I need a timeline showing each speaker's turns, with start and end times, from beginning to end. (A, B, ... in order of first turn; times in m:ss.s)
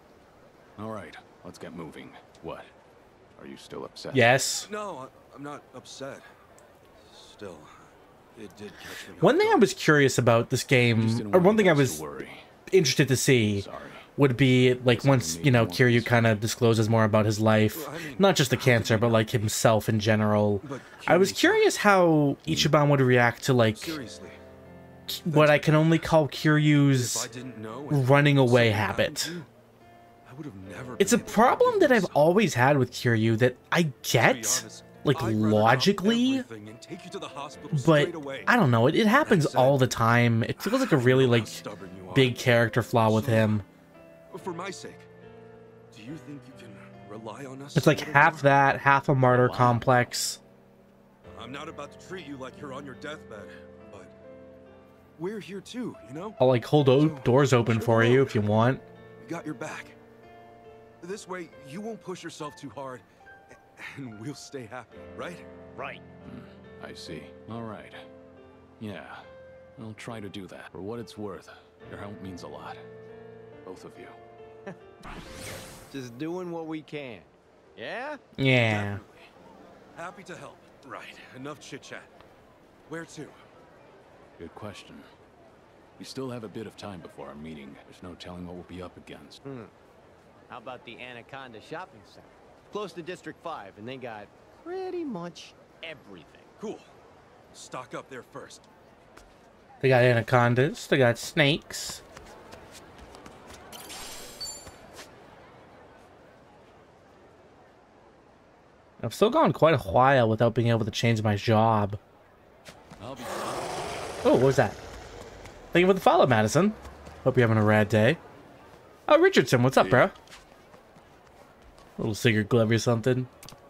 0:00.8-0:02.7 A
0:03.4-0:04.4 A
0:04.1-0:04.7 B
0:04.6-0:06.3 C
0:07.0-0:09.7 C
0:09.2-0:12.0 B
0:10.9-0:12.5 A
0:12.7-0:13.6 B
0:13.5-0:14.1 A
0:14.2-0:24.0 B
0:14.9-0:16.4 A
0:17.7-0:19.2 C
0:18.6-0:19.2 A
0:20.6-0:21.7 C
0:23.7-0:24.4 C
0:25.1-0:27.3 B
0:25.3-0:26.0 C
0:26.9-0:29.5 C
0:27.9-0:29.4 B
0:30.2-0:32.3 C
0:31.0-0:36.5 B
0:34.1-0:38.5 C
0:37.7-0:43.6 B
0:39.2-0:39.8 C
0:40.6-0:42.4 C
0:43.0-0:43.6 C
0:44.3-0:45.1 C
0:45.9-0:48.5 C
0:47.7-0:50.4 B
0:51.2-0:54.1 C
0:55.2-0:56.4 C
0:56.4-0:58.8 B
0:56.9-0:58.4 C
0:59.2-1:00.0 C
1:01.0-1:03.0 C
1:03.6-1:05.4 C
1:05.7-1:06.0 D
1:06.2-1:08.0 A
1:08.8-1:12.8 A
1:13.6-1:14.2 A
1:15.9-1:18.2 D
1:18.4-1:19.0 B
1:18.6-1:19.3 C
1:19.9-1:22.1 C
1:22.9-1:23.4 C
1:24.4-1:25.1 A
1:26.0-1:29.4 A
1:29.4-1:29.7 D
1:30.5-1:36.5 D
1:36.6-1:36.9 C
1:37.5-1:38.6 C
1:39.8-1:42.0 B
1:49.0-1:52.0 B
1:53.0-1:53.9 A
1:54.2-1:54.8 B
1:55.7-1:58.2 B
1:59.1-2:00.1 B
2:02.0-2:03.3 B